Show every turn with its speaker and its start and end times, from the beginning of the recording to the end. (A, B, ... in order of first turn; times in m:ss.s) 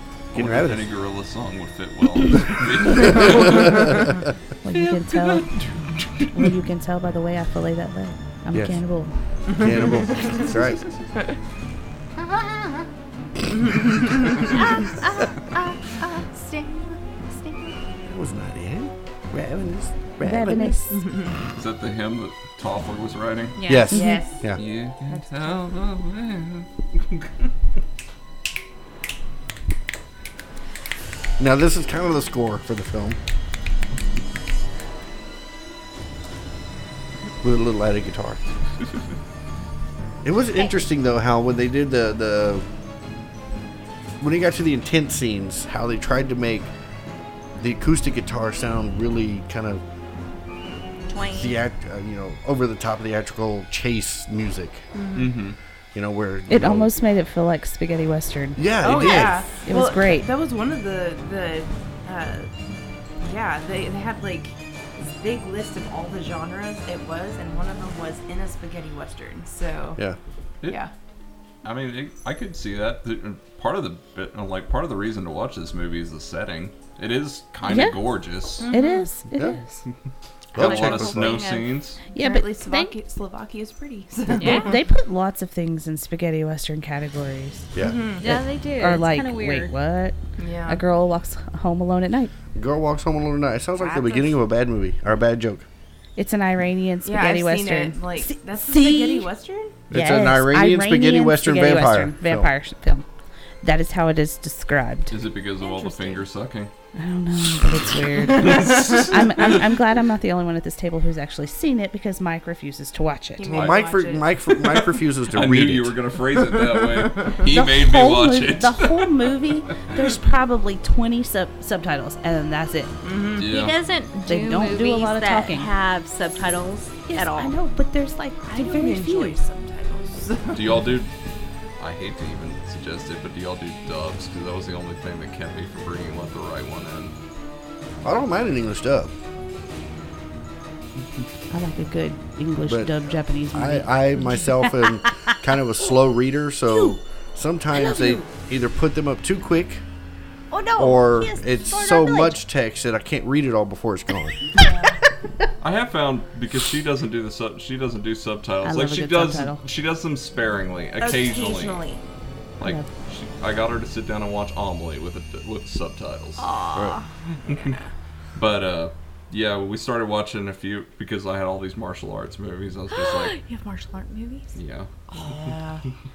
0:00.3-0:00.9 A
0:00.3-0:04.1 B
0:03.0-0:04.1 A
0:04.6-0:05.5 C
0:04.7-0:06.3 B
0:06.3-0:09.2 C
0:08.5-0:08.8 A
0:09.5-0:10.8 A
0:09.6-0:10.4 D
0:13.7-0:14.5 D
0:14.5-0:15.5 E
0:15.9-0:16.9 D
0:18.1-0:20.8 A
0:20.2-0:21.1 C
0:20.9-0:21.4 D
0:21.5-0:23.6 B
0:23.6-0:24.1 E
0:23.7-0:24.6 A
0:23.9-0:24.2 C
0:23.9-0:24.5 D
0:24.6-0:27.5 B
0:25.1-0:25.5 D
0:31.4-0:33.2 A
0:37.4-0:38.4 A
0:40.2-0:42.7 A
0:44.2-0:46.7 A
0:47.6-0:49.8 A
0:51.1-0:51.6 E
0:51.3-0:54.9 A
0:54.9-0:55.4 D
0:55.2-0:55.6 B
0:55.9-0:57.0 A
0:56.5-0:58.7 C
0:58.6-0:59.5 A
0:58.8-1:02.5 D
0:59.5-1:00.3 C
1:03.2-1:10.0 D
1:10.7-1:10.9 D
1:11.6-1:18.7 B
1:17.6-1:18.1 C
1:18.6-1:19.1 D
1:18.6-1:19.8 C
1:20.5-1:21.5 A
1:20.5-1:21.7 E
1:20.6-1:22.0 B
1:22.1-1:23.0 C
1:22.1-1:24.8 D
1:24.4-1:24.8 E
1:24.4-1:27.7 C
1:27.7-1:28.0 A
1:27.8-1:28.3 D
1:28.2-1:29.7 E
1:28.2-1:32.3 C
1:30.4-1:30.8 D
1:32.6-1:35.7 A
1:33.8-1:34.4 D
1:36.2-1:39.3 C
1:37.0-1:39.8 D
1:39.9-1:42.5 A
1:39.9-1:43.0 C
1:43.6-1:45.2 C
1:45.1-1:46.7 B
1:45.6-1:46.2 D
1:47.0-1:53.6 C
1:48.4-1:49.1 B
1:53.4-1:54.3 D
1:53.5-1:56.0 A
1:53.5-1:53.8 B
1:55.3-1:59.3 B
1:57.4-2:02.9 C
2:03.0-2:03.5 D
2:03.4-2:03.8 B
2:03.4-2:07.6 E
2:04.3-2:05.7 C
2:07.1-2:09.4 C
2:08.4-2:10.9 D
2:10.5-2:11.1 B
2:11.8-2:17.1 B
2:18.0-2:19.1 A
2:21.5-2:24.0 C
2:22.7-2:29.8 A
2:27.9-2:28.2 E
2:30.5-2:32.4 E
2:30.8-2:34.4 A
2:34.5-2:35.0 D
2:35.6-2:41.8 B
2:38.6-2:39.6 C
2:41.0-2:42.0 D
2:42.6-2:46.5 B
2:42.6-2:42.9 C
2:46.4-2:47.1 E
2:47.4-2:47.8 B
2:47.4-2:47.9 D
2:48.4-2:53.4 B
2:52.9-2:54.6 E
2:54.6-2:55.5 B
2:55.1-2:55.8 D